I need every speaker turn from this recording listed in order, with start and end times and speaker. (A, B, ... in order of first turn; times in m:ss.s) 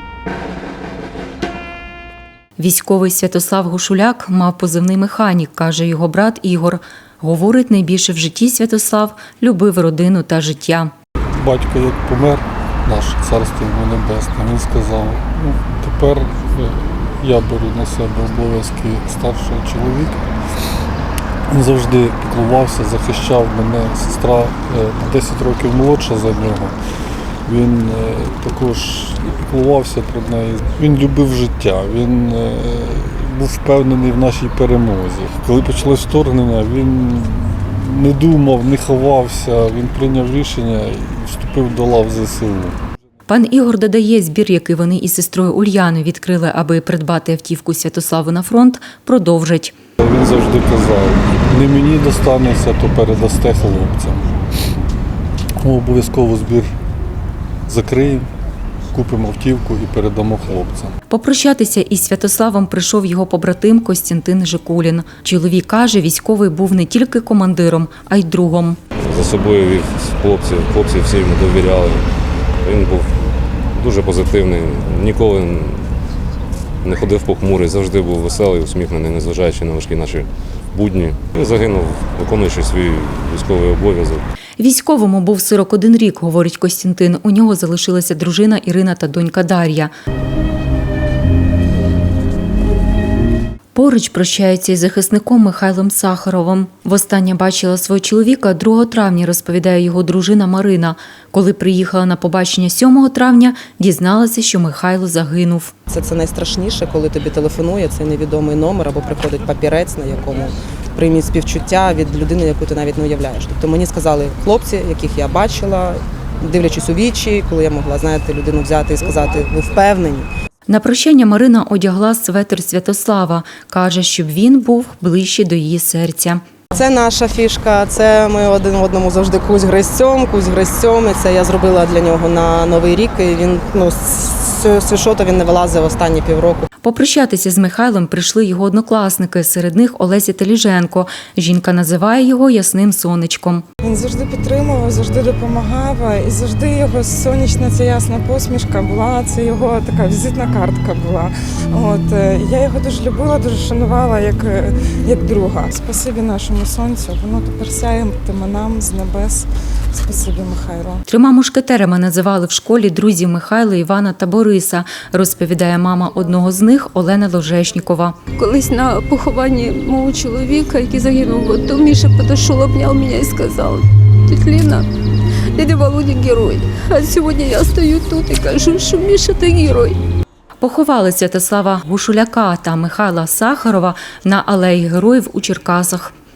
0:02.6-0:10.9 A
0:11.4-0:20.2 B
0:21.5-0:26.7 B
0:27.4-0:42.8 B
0:43.3-0:49.7 A
0:50.0-0:54.3 B
0:55.6-0:56.7 B
0:57.7-0:58.3 B
0:58.9-1:00.9 B
1:01.1-1:08.8 A
1:09.0-1:12.1 C
1:12.6-1:13.1 C
1:13.7-1:15.9 C
1:16.8-1:24.2 C
1:24.6-1:29.9 A
1:33.7-1:45.7 A
1:45.9-2:00.3 D
2:00.7-2:06.4 A
2:06.7-2:16.7 D
2:16.8-2:23.6 A
2:23.8-2:41.0 E
2:41.1-2:48.2 A
2:48.3-2:54.9 F
2:55.5-3:00.0 F
3:00.6-3:06.1 A